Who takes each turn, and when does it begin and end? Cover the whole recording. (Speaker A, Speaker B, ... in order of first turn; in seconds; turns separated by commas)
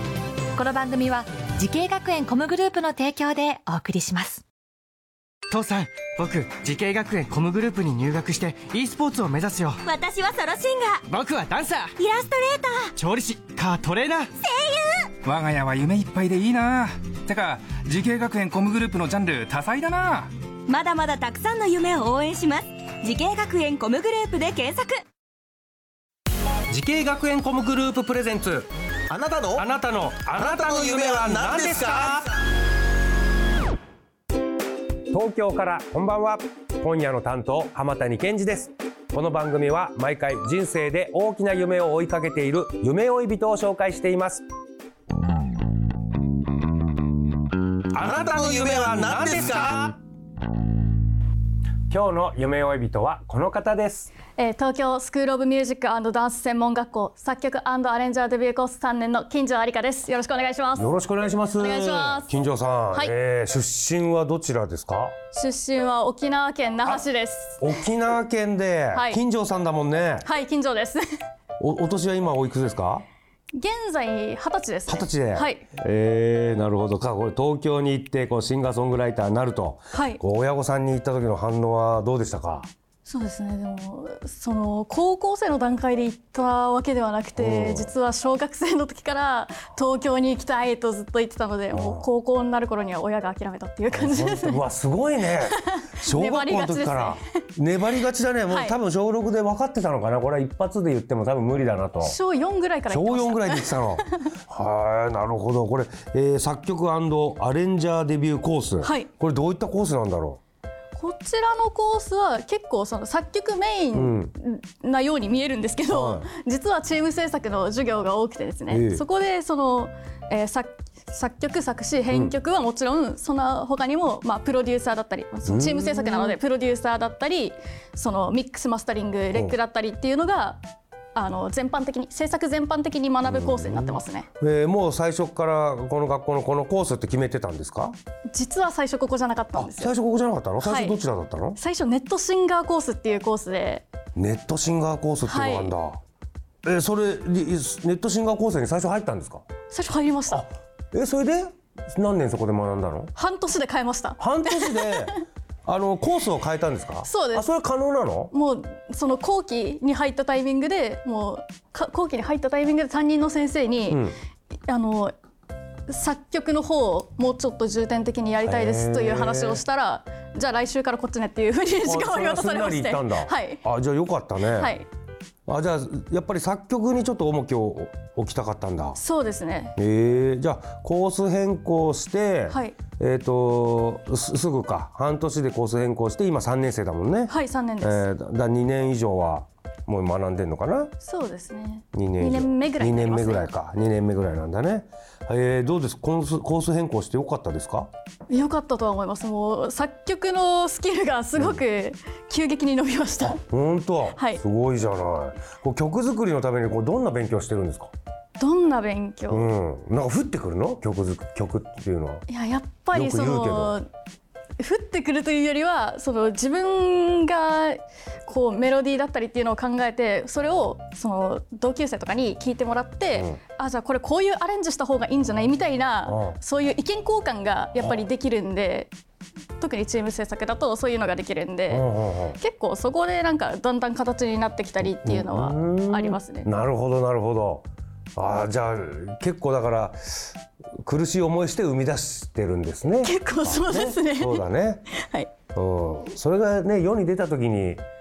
Speaker A: 0.5-4.4, Speaker B: 5.5-9.8, Speaker B: 11.1-11.9, Speaker C: 12.1-12.9, Speaker B: 12.9-14.3, Speaker D: 15.2-20.3, Speaker C: 20.7-24.9, Speaker E: 26.7-28.7, Speaker F: 29.1-29.6, Speaker E: 29.5-32.3, Speaker F: 30.4-32.2, Speaker E: 35.1-44.4, Speaker E: 47.9-49.9, Speaker F: 48.2-49.7, Speaker E: 51.9-54.1, Speaker G: 54.4-60.9, Speaker E: 60.7-65.1, Speaker G: 61.5-62.3, Speaker G: 65.3-67.6, Speaker E: 67.6-70.2, Speaker G: 68.9-69.2, Speaker G: 70.2-71.0, Speaker E: 71.6-73.0, Speaker G: 73.5-75.6, Speaker E: 74.9-82.7, Speaker G: 79.9-80.2, Speaker G: 83.0-94.6, Speaker E: 87.4-87.9, Speaker E: 91.7-92.0, Speaker E: 93.9-102.2, Speaker G: 95.4-97.2, Speaker G: 98.5-98.8, Speaker G: 102.0-104.1, Speaker E: 102.9-110.4, Speaker G: 108.8-109.1, Speaker G: 110.9-130.6, Speaker E: 113.9-114.3, Speaker E: 115.9-116.3, Speaker E: 118.7-119.0, Speaker E: 125.5-126.4, Speaker G: 131.1-134.3, Speaker E: 133.2-137.9, Speaker G: 138.3-139.9, Speaker E: 139.5-141.6, Speaker G: 140.6-141.0, Speaker G: 141.6-143.8, Speaker E: 144.2-146.0, Speaker G: 145.2-145.7, Speaker E: 146.6-149.4, Speaker G: 149.7-150.4, Speaker E: 150.3-153.1, Speaker G: 153.1-155.2, Speaker E: 154.2-155.1, Speaker E: 155.7-158.3, Speaker G: 157.0-157.4, Speaker G: 158.3-164.0, Speaker E: 163.9-164.2, Speaker G: 164.7-165.1, Speaker G: 165.9-173.6, Speaker E: 168.4-169.6, Speaker E: 171.8-174.7, Speaker G: 174.5-174.8, Speaker E: 175.5-179.0, Speaker G: 178.9-179.8, Speaker E: 179.8-190.9, Speaker G: 182.5-182.8, Speaker G: 187.3-188.1, Speaker G: 191.0-193.5, Speaker E: 191.9-197.9, Speaker G: 198.3-203.4, Speaker E: 201.3-201.6, Speaker E: 203.2-207.9, Speaker G: 204.1-204.4, Speaker G: 208.4-209.5, Speaker E: 209.3-212.2, Speaker G: 212.3-213.9, Speaker E: 212.9-213.8, Speaker G: 214.6-228.9, Speaker E: 223.1-223.4, Speaker E: 226.1-226.4, Speaker G: 229.6-231.8, Speaker E: 231.7-232.4, Speaker G: 232.4-236.5, Speaker E: 234.8-240.3, Speaker E: 240.8-244.8, Speaker G: 243.0-245.3, Speaker E: 245.5-247.8